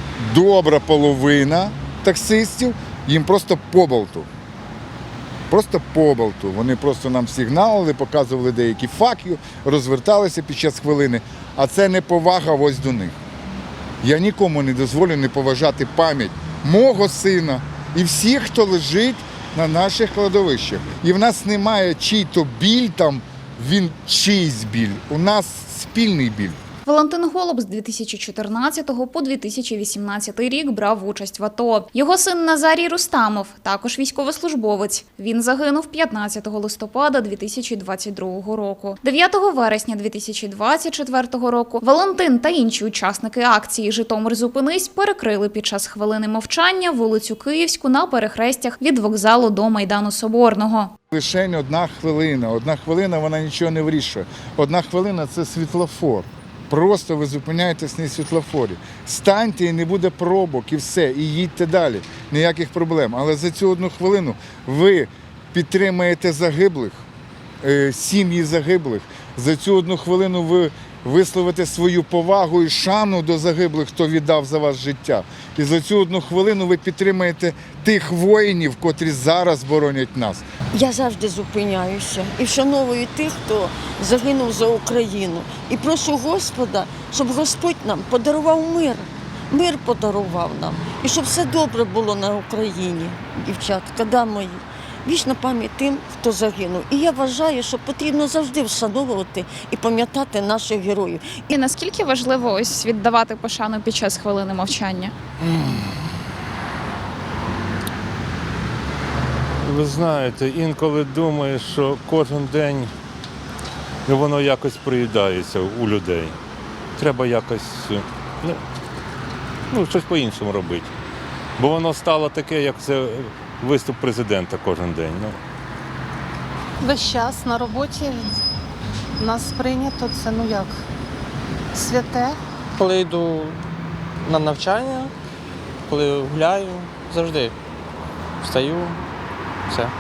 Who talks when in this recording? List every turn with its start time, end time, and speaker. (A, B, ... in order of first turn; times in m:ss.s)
0:00.2-0:04.3 A
0:05.5-0:13.2 A
0:14.0-0:26.6 A
0:26.9-0:50.9 B
0:51.1-1:07.0 A
1:07.6-1:20.5 A
1:20.7-1:41.5 C
1:41.5-1:45.2 B
1:49.6-1:52.9 D
1:54.1-1:56.4 D
1:57.0-1:58.6 D
1:59.7-2:00.9 D
2:01.6-2:05.4 D
2:06.8-2:08.4 E
2:09.2-2:10.8 E
2:11.7-2:12.4 E
2:12.8-2:13.5 F
2:14.3-2:15.1 F
2:15.9-2:17.5 F
2:18.4-2:18.9 F